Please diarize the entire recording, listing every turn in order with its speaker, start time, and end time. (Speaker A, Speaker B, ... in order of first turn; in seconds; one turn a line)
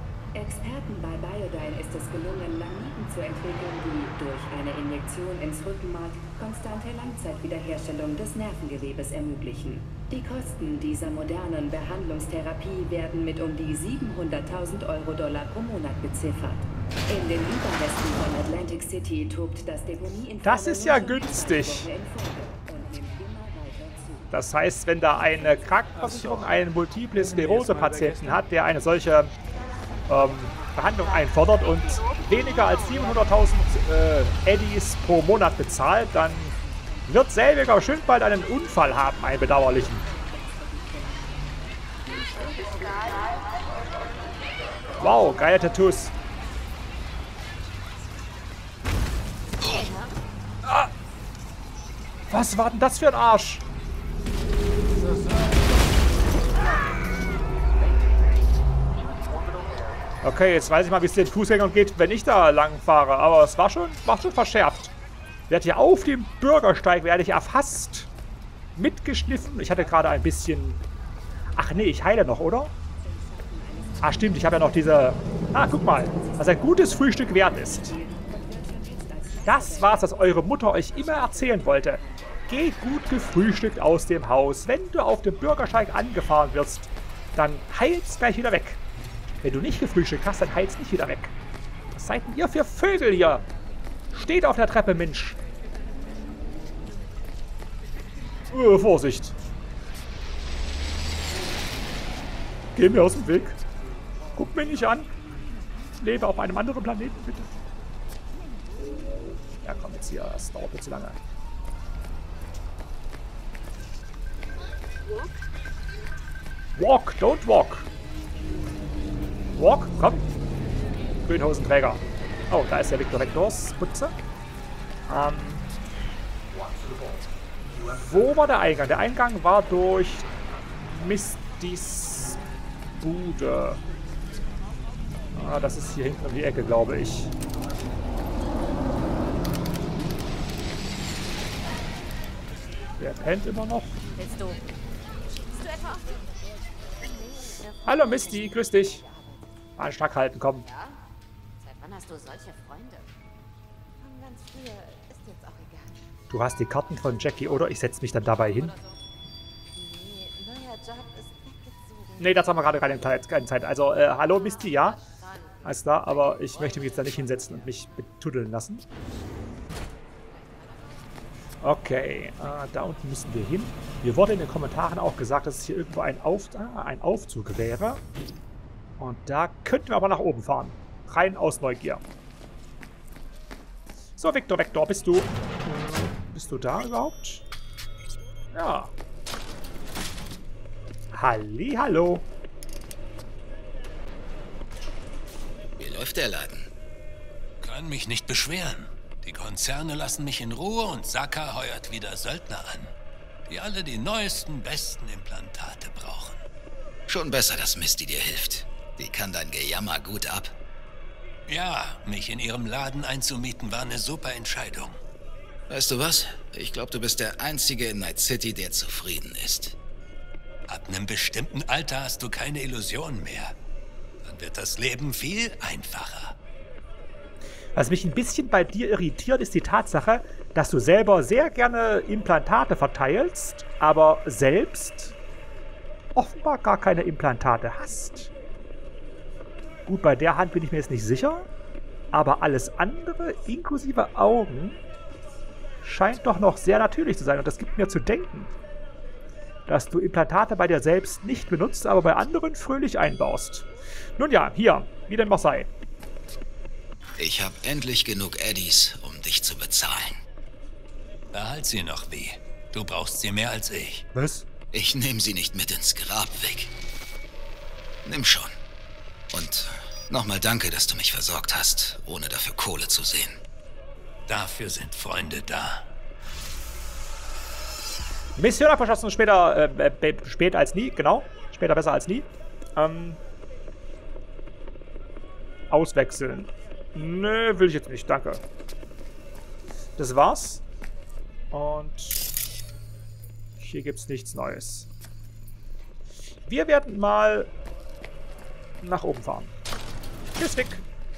Speaker A: 0.3-24.3
Speaker B: 20.4-21.9
Speaker B: 24.3-29.3
Speaker B: 30.1-36.5
Speaker B: 37.1-40.0
Speaker A: 39.9-41.3
Speaker A: 42.3-43.1
Speaker B: 45.0-46.1
Speaker C: 49.7-50.1
Speaker B: 50.6-50.9
Speaker B: 52.3-53.6
Speaker B: 60.2-64.9
Speaker B: 65.5-68.1
Speaker B: 68.8-70.8
Speaker B: 71.6-72.7
Speaker A: 73.0-74.5
Speaker B: 74.0-77.9
Speaker A: 75.9-82.4
Speaker B: 79.5-88.8
Speaker B: 89.4-91.3
Speaker B: 91.9-93.5
Speaker B: 94.1-95.4
Speaker B: 98.5-99.3
Speaker B: 102.7-103.6
Speaker B: 104.3-105.1
Speaker B: 106.0-107.5
Speaker B: 109.6-111.2
Speaker B: 116.8-117.9
Speaker B: 119.6-120.2
Speaker B: 121.3-124.1
Speaker B: 125.1-125.6
Speaker B: 127.9-130.3
Speaker B: 130.8-132.4
Speaker B: 133.0-133.8
Speaker B: 135.3-137.3
Speaker B: 143.0-143.9
Speaker C: 144.2-144.6
Speaker C: 145.6-146.0
Speaker C: 147.5-147.8
Speaker B: 147.8-149.0
Speaker C: 149.1-149.3
Speaker B: 149.8-150.7
Speaker C: 151.6-153.0
Speaker C: 154.5-155.8
Speaker B: 156.3-158.7
Speaker C: 159.8-161.2
Speaker B: 162.2-165.0
Speaker B: 165.6-168.8
Speaker B: 171.6-178.0
Speaker B: 179.0-182.0
Speaker B: 184.2-187.4
Speaker B: 188.5-188.9
Speaker B: 191.1-192.2
Speaker D: 195.8-196.7
Speaker E: 197.6-202.9
Speaker E: 203.5-206.4
Speaker D: 207.1-210.5
Speaker E: 211.5-215.0
Speaker D: 215.7-219.8
Speaker E: 220.7-223.6
Speaker E: 224.2-226.3
Speaker B: 227.7-235.2
Speaker B: 236.2-238.3
Speaker B: 239.9-241.5
Speaker B: 242.1-244.8
Speaker B: 245.8-248.5
Speaker B: 249.7-255.7
Speaker D: 257.2-260.2
Speaker E: 261.3-264.1
Speaker B: 264.1-264.4
Speaker D: 264.7-266.7
Speaker D: 268.0-268.6
Speaker D: 269.3-273.4
Speaker E: 274.3-275.9
Speaker B: 278.4-283.2
Speaker B: 285.7-288.4
Speaker B: 290.0-290.6
Speaker B: 291.5-292.2
Speaker B: 293.6-294.9
Speaker B: 296.4-297.5
Speaker B: 298.8-299.5
Speaker B: 300.4-300.8